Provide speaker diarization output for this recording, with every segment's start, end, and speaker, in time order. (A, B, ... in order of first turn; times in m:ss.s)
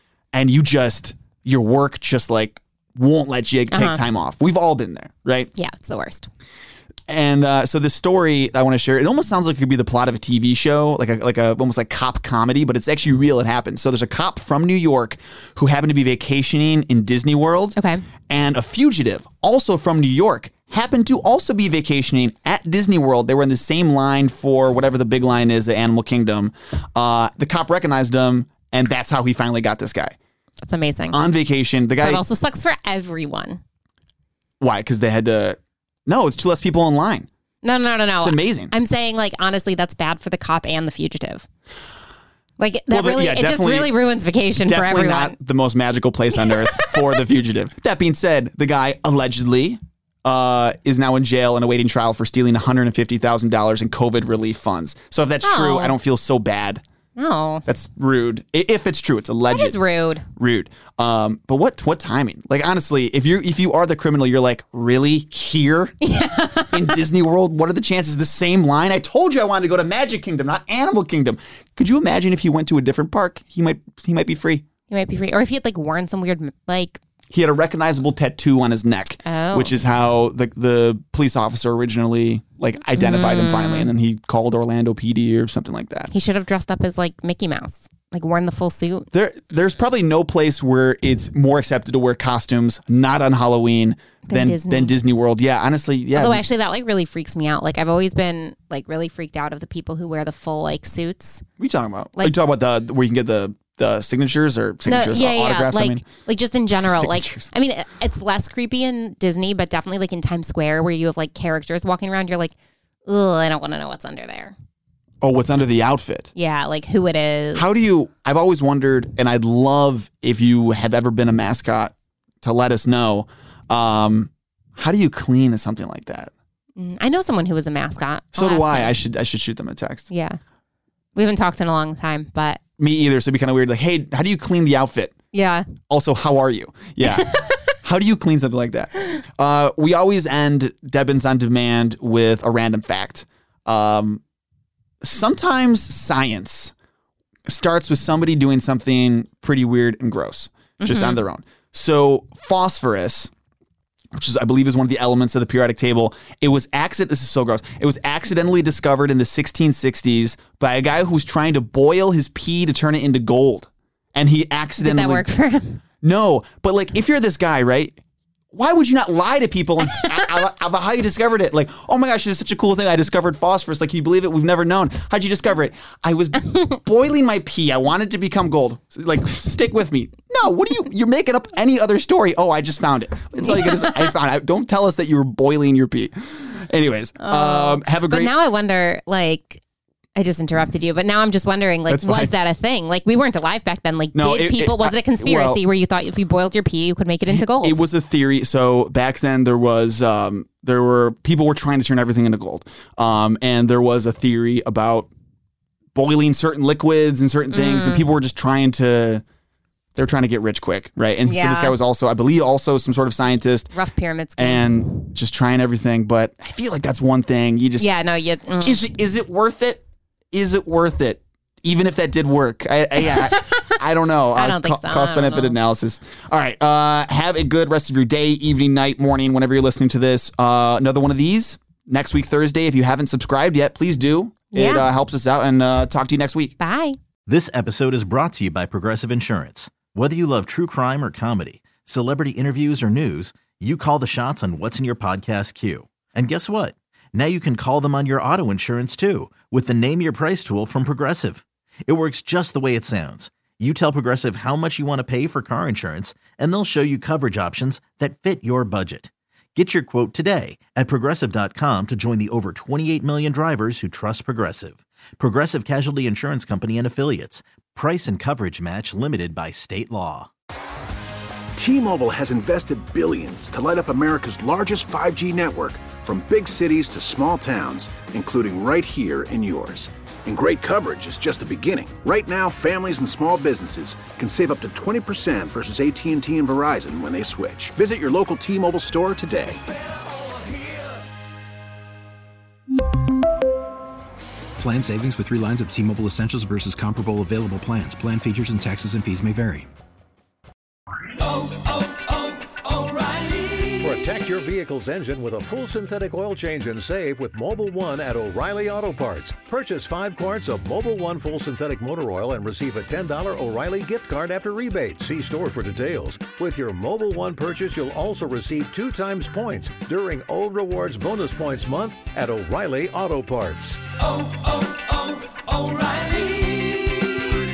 0:00.3-0:05.5 A
0:03.7-0:04.0 B
0:05.6-0:06.3 B
0:07.1-0:17.8 A
0:17.8-0:18.0 B
0:18.3-0:30.1 A
0:30.6-0:31.2 B
0:31.1-0:32.2 A
0:32.0-0:33.6 B
0:34.6-0:37.3 A
0:37.6-0:41.4 B
0:38.2-0:38.7 A
0:42.6-0:45.4 B
0:42.9-0:43.9 A
0:44.7-0:56.8 A
0:46.4-0:47.0 B
0:55.4-0:56.0 B
0:57.2-0:57.6 B
0:57.7-0:59.8 A
0:59.5-1:00.2 B
1:00.3-1:06.1 A
1:06.0-1:06.8 B
1:06.7-1:14.6 A
1:14.9-1:17.0 B
1:17.3-1:26.1 A
1:19.2-1:19.7 B
1:22.9-1:23.9 B
1:26.1-1:29.1 B
1:29.1-1:36.4 A
1:34.3-1:34.9 B
1:36.1-1:41.4 B
1:41.6-1:46.0 A
1:44.8-1:52.5 B
1:46.7-1:47.4 A
1:53.0-1:54.5 B
1:55.2-1:56.3 A
1:56.4-1:57.7 B
1:57.5-2:06.3 A
2:06.8-2:08.9 B
2:08.3-2:10.1 A
2:10.1-2:10.4 B
2:11.2-2:12.6 B
2:12.8-2:15.2 A
2:15.3-2:15.7 B
2:15.8-2:24.2 A
2:17.0-2:17.6 B
2:25.0-2:26.7 A
2:27.4-2:33.3 A
2:30.8-2:31.2 B
2:34.1-2:45.2 A
2:44.8-2:45.8 B
2:46.0-2:48.0 A
2:48.5-3:08.3 A
3:03.4-3:04.1 B
3:07.2-3:09.6 B
3:10.1-3:17.8 B
3:11.9-3:12.3 A
3:14.1-3:15.6 A
3:17.3-3:25.1 A
3:25.9-3:29.2 A
3:27.5-3:28.0 B
3:30.0-3:33.7 A
3:31.2-3:31.8 B
3:33.7-3:35.0 B
3:34.4-3:37.9 A
3:37.8-3:38.9 B
3:38.6-3:56.5 A
3:43.0-3:43.8 B
3:44.3-3:45.6 B
3:54.5-3:54.9 B
3:56.6-3:57.0 B
3:57.3-4:30.3 C
4:31.5-4:49.7 D
4:54.6-4:59.7 E
5:01.2-5:27.1 F